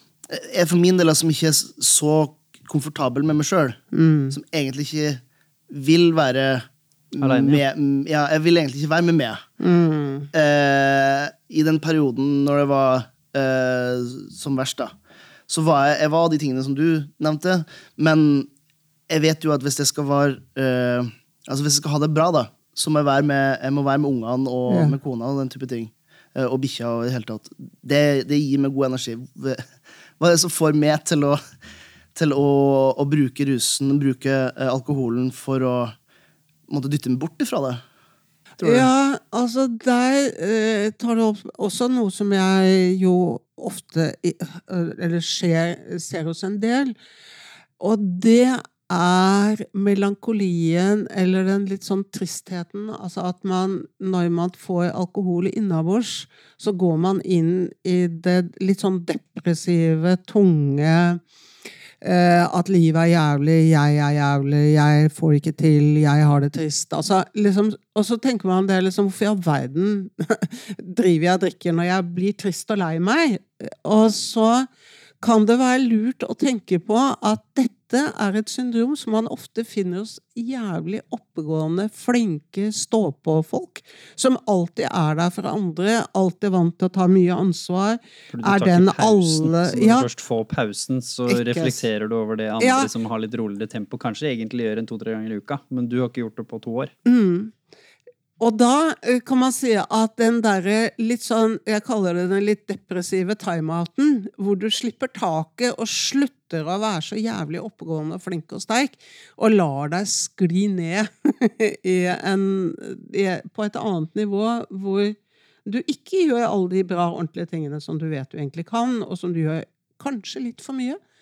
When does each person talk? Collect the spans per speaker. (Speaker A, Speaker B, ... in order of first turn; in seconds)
Speaker A: 0.3-3.8, 4.3-9.4, 10.3-14.9, 15.5-18.5, 19.1-29.7, 30.2-31.4, 32.1-36.0, 36.7-37.8, 38.6-38.9
Speaker B: 3.9-4.4, 9.6-10.3, 24.7-25.0, 38.6-47.0, 47.8-61.2, 62.0-74.7, 75.2-90.1, 91.3-91.8, 92.6-92.9, 97.0-97.5, 98.4-121.0
Speaker C: 7.2-7.6, 88.3-96.9